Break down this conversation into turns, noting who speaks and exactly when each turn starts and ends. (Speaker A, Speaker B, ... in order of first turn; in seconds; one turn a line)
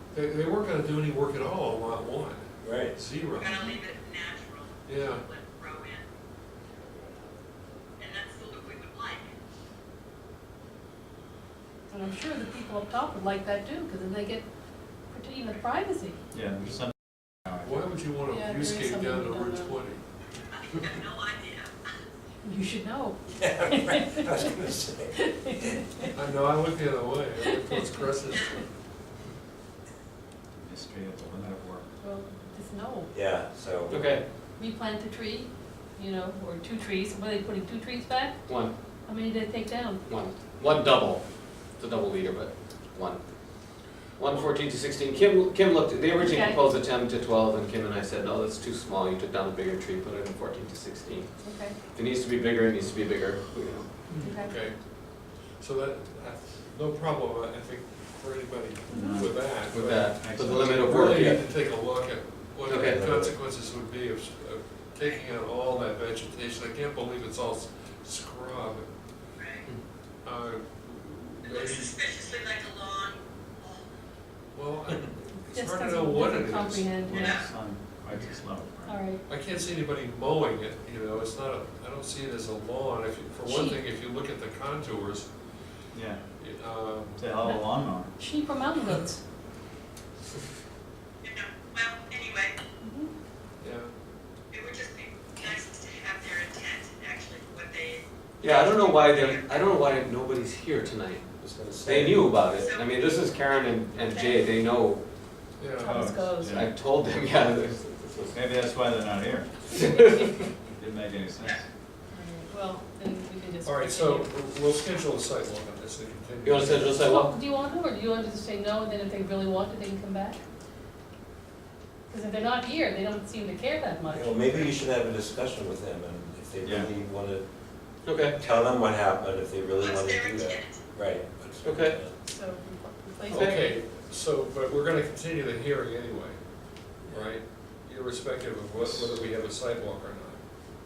Speaker A: 0.1-3.6
Speaker B: 2.6-3.0
Speaker C: 3.3-6.0
Speaker D: 3.5-3.8
Speaker A: 4.8-5.2
Speaker C: 8.0-9.3
Speaker D: 11.9-14.5
Speaker D: 15.1-16.2
Speaker E: 16.3-17.9
Speaker A: 17.6-20.0
Speaker D: 18.3-19.7
Speaker A: 20.7-21.1
Speaker C: 20.8-21.7
Speaker D: 22.4-24.5
Speaker B: 23.3-25.8
Speaker D: 25.1-26.1
Speaker A: 26.1-28.7
Speaker D: 27.7-28.4
Speaker E: 30.5-31.9
Speaker D: 32.0-33.1
Speaker B: 33.1-34.2
Speaker F: 33.9-34.2
Speaker D: 34.6-38.4
Speaker F: 38.5-38.7
Speaker D: 39.0-40.0
Speaker F: 40.0-43.2
Speaker F: 44.2-54.0
Speaker A: 44.3-44.5
Speaker D: 46.2-46.7
Speaker D: 51.4-51.8
Speaker A: 54.2-54.8
Speaker D: 54.2-54.5
Speaker A: 55.6-68.9
Speaker E: 58.9-59.4
Speaker D: 58.9-59.2
Speaker F: 59.6-61.4
Speaker E: 60.2-61.0
Speaker F: 62.6-63.1
Speaker B: 62.9-63.3
Speaker C: 69.4-69.6
Speaker A: 70.2-72.1
Speaker C: 71.4-73.8
Speaker A: 74.5-77.1
Speaker D: 75.4-77.4
Speaker E: 77.0-79.0
Speaker C: 77.1-77.5
Speaker D: 78.8-79.2
Speaker A: 79.2-85.3
Speaker D: 83.5-83.8
Speaker E: 85.9-86.2
Speaker A: 86.4-87.2
Speaker E: 87.2-88.1
Speaker D: 88.2-89.2
Speaker C: 91.2-92.6
Speaker D: 92.8-93.1
Speaker A: 93.6-93.9
Speaker C: 94.5-100.0
Speaker F: 98.4-105.0
Speaker B: 101.4-102.6
Speaker C: 102.5-103.2
Speaker D: 104.1-104.5
Speaker A: 105.6-106.1
Speaker D: 105.8-106.6
Speaker E: 105.8-106.7
Speaker F: 106.4-108.4
Speaker E: 108.3-109.6
Speaker F: 109.8-110.3
Speaker E: 110.7-111.7
Speaker D: 112.1-114.3
Speaker A: 113.6-117.0
Speaker F: 116.4-117.3
Speaker D: 117.0-120.4
Speaker D: 122.1-124.7
Speaker B: 124.1-127.4
Speaker E: 126.6-126.9
Speaker F: 128.0-128.4
Speaker B: 128.3-132.1
Speaker C: 129.8-130.8
Speaker F: 131.6-132.0
Speaker D: 132.2-133.6
Speaker F: 133.3-133.6
Speaker A: 133.3-136.4
Speaker A: 137.1-140.4
Speaker B: 138.8-139.1